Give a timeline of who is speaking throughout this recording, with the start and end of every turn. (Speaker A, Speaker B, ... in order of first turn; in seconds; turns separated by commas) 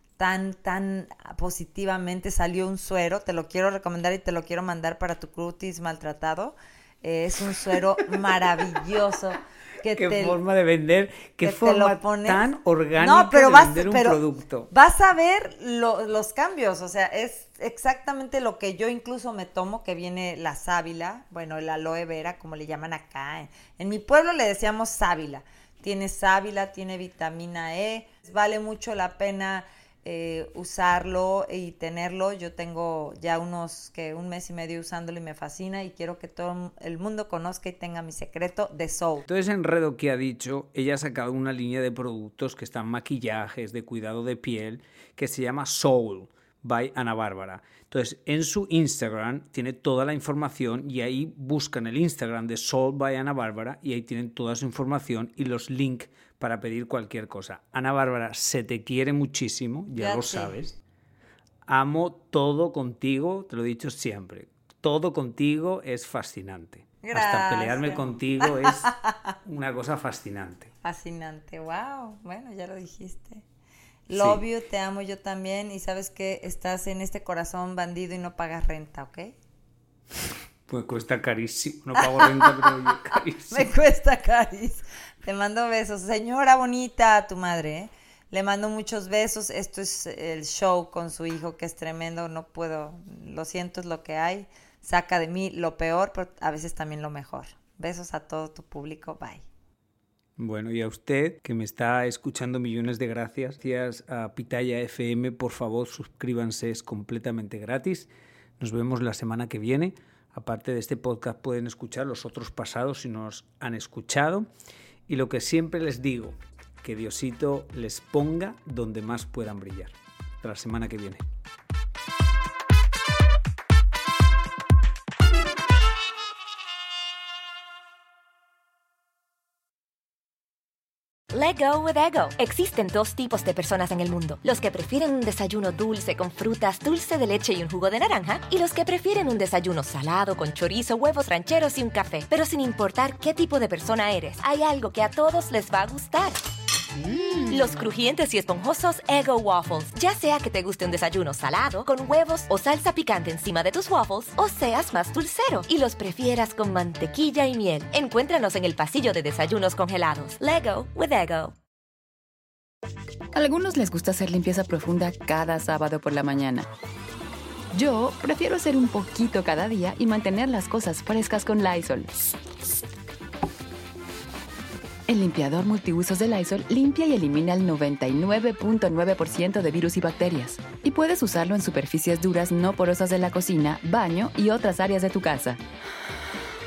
Speaker A: 0.2-10.4, Speaker B: 9.8-14.7, Speaker A: 11.4-39.2, Speaker B: 39.2-60.8, Speaker A: 60.0-60.5, Speaker B: 61.6-68.9, Speaker A: 67.0-69.3, Speaker B: 69.4-70.7, Speaker A: 70.8-73.4, Speaker A: 74.1-79.3, Speaker B: 74.1-74.4, Speaker B: 80.7-83.7, Speaker A: 82.0-82.8, Speaker A: 83.5-99.4, Speaker B: 100.4-114.5, Speaker B: 115.1-121.2, Speaker C: 131.3-146.4, Speaker C: 147.5-161.6, Speaker D: 163.3-166.7, Speaker D: 167.7-172.1, Speaker D: 175.1-185.6